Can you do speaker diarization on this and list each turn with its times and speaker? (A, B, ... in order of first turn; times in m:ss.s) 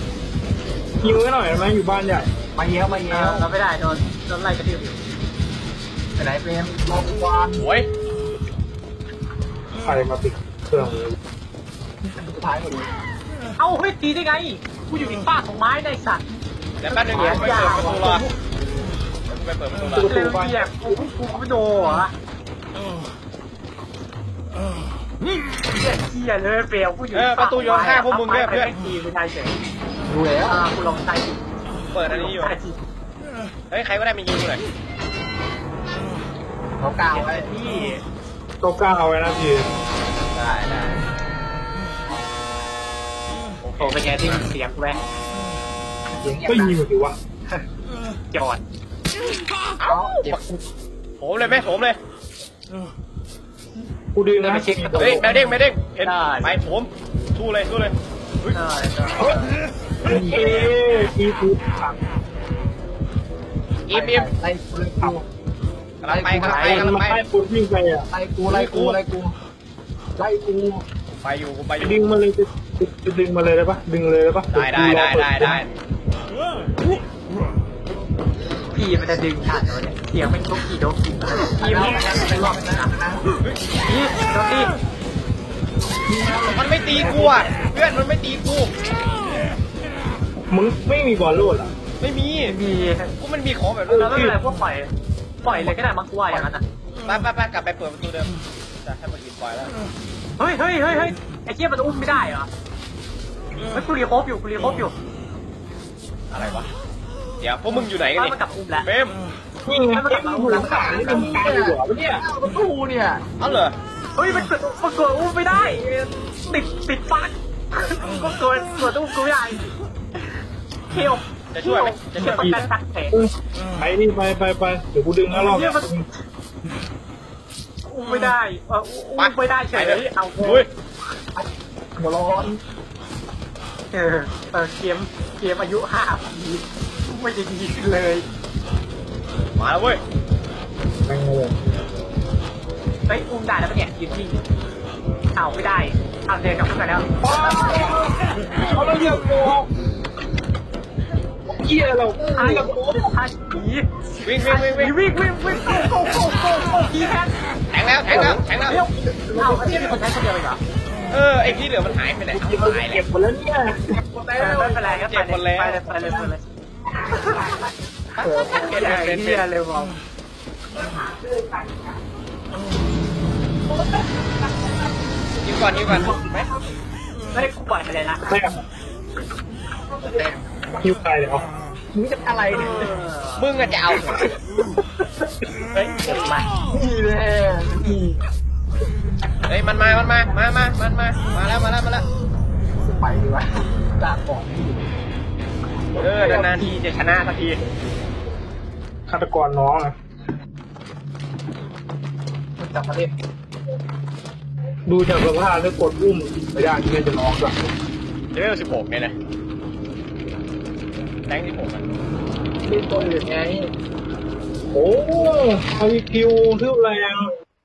0:01.0-0:02.3 A
0:02.5-0:03.5 B
0:03.1-0:05.0 C
0:06.2-0:07.6 B
0:07.6-0:07.9 D
0:09.8-0:11.2 A
0:12.0-0:12.9 B
0:13.6-0:16.2 C
0:16.8-0:18.3 D
0:16.9-0:18.2 C
0:17.1-0:18.2 B
0:19.3-0:20.1 D
0:19.8-0:21.0 A
0:20.0-0:22.1 C
0:25.7-0:29.5 C
0:27.1-0:28.7 D
0:30.0-0:30.6 B
0:30.5-0:31.4 C
0:31.9-0:32.5 D
0:32.0-0:32.8 C
0:33.7-0:34.6 D
0:36.8-0:37.5 B
0:37.1-0:38.0 C
0:38.6-0:39.7 A
0:40.3-0:41.0 D
0:43.6-0:44.4 D
0:43.8-0:45.0 C
0:46.2-0:46.8 B
0:46.4-0:47.2 A
0:48.3-0:48.6 C
0:49.8-0:50.4 D
0:49.8-0:50.6 B
0:51.2-0:52.0 D
0:54.1-0:55.4 A
0:54.4-0:55.3 C
0:55.0-0:58.6 D
0:56.0-0:56.5 C
0:58.5-0:59.6 C
0:59.2-0:59.5 A
1:00.0-1:02.0 A
1:00.0-1:00.7 B
1:03.9-1:04.3 D
1:03.9-1:05.2 B
1:06.0-1:07.2 D
1:06.0-1:06.9 B
1:06.5-1:06.9 C
1:06.5-1:08.1 A
1:08.1-1:09.3 B
1:08.5-1:09.0 D
1:10.2-1:10.8 B
1:11.2-1:12.0 D
1:11.8-1:15.6 A
1:14.5-1:15.7 D
1:18.7-1:22.9 C
1:21.6-1:23.2 B
1:23.8-1:24.7 C
1:26.1-1:27.6 B
1:26.5-1:28.7 D
1:30.5-1:31.7 A
1:32.0-1:32.6 D
1:32.4-1:33.1 C
1:33.2-1:34.2 D
1:33.9-1:34.9 C
1:34.0-1:34.4 A
1:35.4-1:36.6 C
1:37.0-1:39.7 D
1:40.4-1:42.5 C
1:43.7-1:44.9 C
1:46.3-1:46.7 D
1:47.4-1:49.2 D
1:48.1-1:48.9 C
1:49.6-1:52.2 A
1:49.9-1:51.0 C
1:50.5-1:53.2 B
1:53.4-1:53.8 D
1:54.2-1:55.9 C
1:56.5-1:59.7 C
2:00.9-2:03.1 C
2:01.5-2:02.7 D
2:02.2-2:06.1 A
2:05.3-2:05.9 C
2:07.9-2:10.6 C
2:09.2-2:10.7 D
2:11.3-2:12.6 B
2:13.9-2:18.2 C
2:19.6-2:20.0 D
2:21.1-2:21.5 A
2:23.1-2:24.4 C
2:25.3-2:27.1 C
2:27.2-2:28.1 A
2:28.7-2:29.7 A
2:31.5-2:33.1 A
2:32.3-2:33.9 C
2:34.2-2:34.9 D
2:34.4-2:37.3 C
2:37.7-2:38.8 D
2:38.1-2:38.4 A
2:38.2-2:40.6 C
2:39.0-2:40.0 B
2:41.1-2:43.0 D
2:42.3-2:44.0 A
2:43.9-2:44.8 B
2:44.4-2:46.4 C
2:44.8-2:46.1 D
2:48.2-2:49.4 D
2:48.2-2:48.6 B
2:48.7-2:49.9 C
2:55.4-2:56.5 D
2:55.8-2:56.4 B
2:57.3-2:58.5 C
2:58.3-2:58.6 A
3:00.0-3:00.4 B
3:00.8-3:01.4 A
3:01.9-3:02.9 B
3:02.6-3:03.4 C
3:03.4-3:04.3 D
3:05.7-3:06.5 C
3:06.7-3:08.2 B
3:09.5-3:12.0 D
3:12.8-3:14.9 B
3:16.0-3:17.6 D
3:16.0-3:16.7 B
3:16.3-3:16.7 C
3:19.1-3:20.0 A
3:22.6-3:23.1 B
3:24.9-3:27.6 A
3:28.3-3:29.1 D
3:31.3-3:31.8 D
3:32.6-3:33.7 B
3:34.7-3:37.3 A